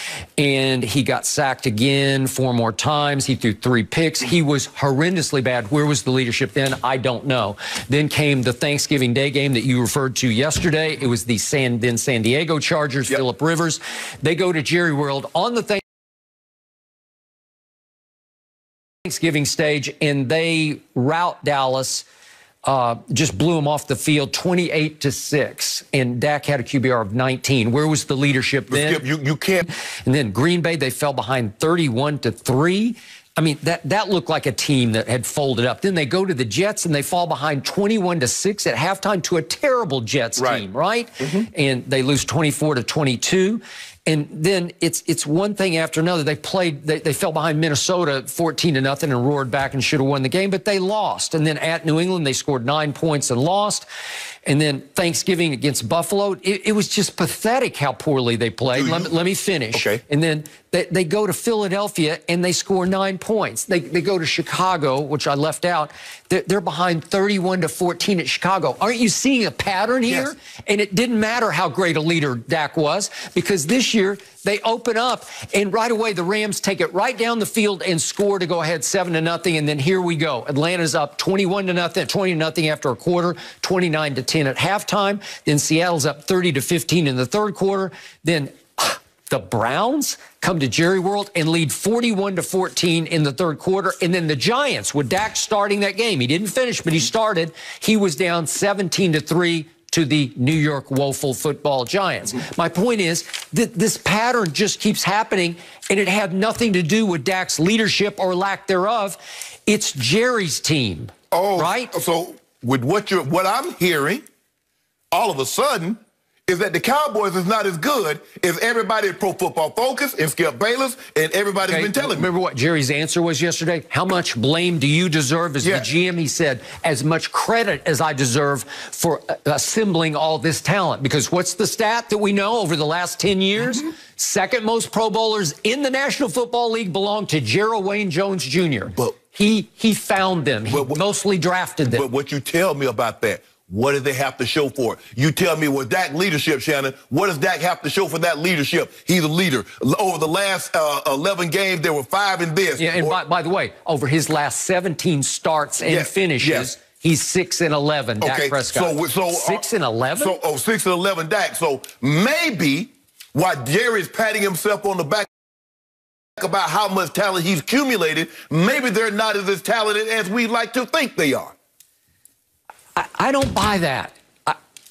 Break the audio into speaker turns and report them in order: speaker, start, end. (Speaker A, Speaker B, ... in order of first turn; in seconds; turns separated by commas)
Speaker A: 0.4-15.8, Speaker A: 19.0-22.1, Speaker A: 22.6-29.0, Speaker B: 28.7-29.7, Speaker A: 30.0-53.9, Speaker B: 40.4-40.6, Speaker B: 41.2-41.5, Speaker A: 54.5-111.9, Speaker B: 58.7-59.2, Speaker B: 59.7-60.0, Speaker B: 70.1-70.3, Speaker B: 111.3-114.2, Speaker B: 115.1-122.3, Speaker A: 121.6-142.1, Speaker B: 125.6-125.9, Speaker B: 140.7-141.0, Speaker B: 141.8-153.2, Speaker A: 152.8-160.4, Speaker B: 155.8-156.7, Speaker B: 158.2-165.3, Speaker B: 166.4-171.6, Speaker A: 173.0-174.6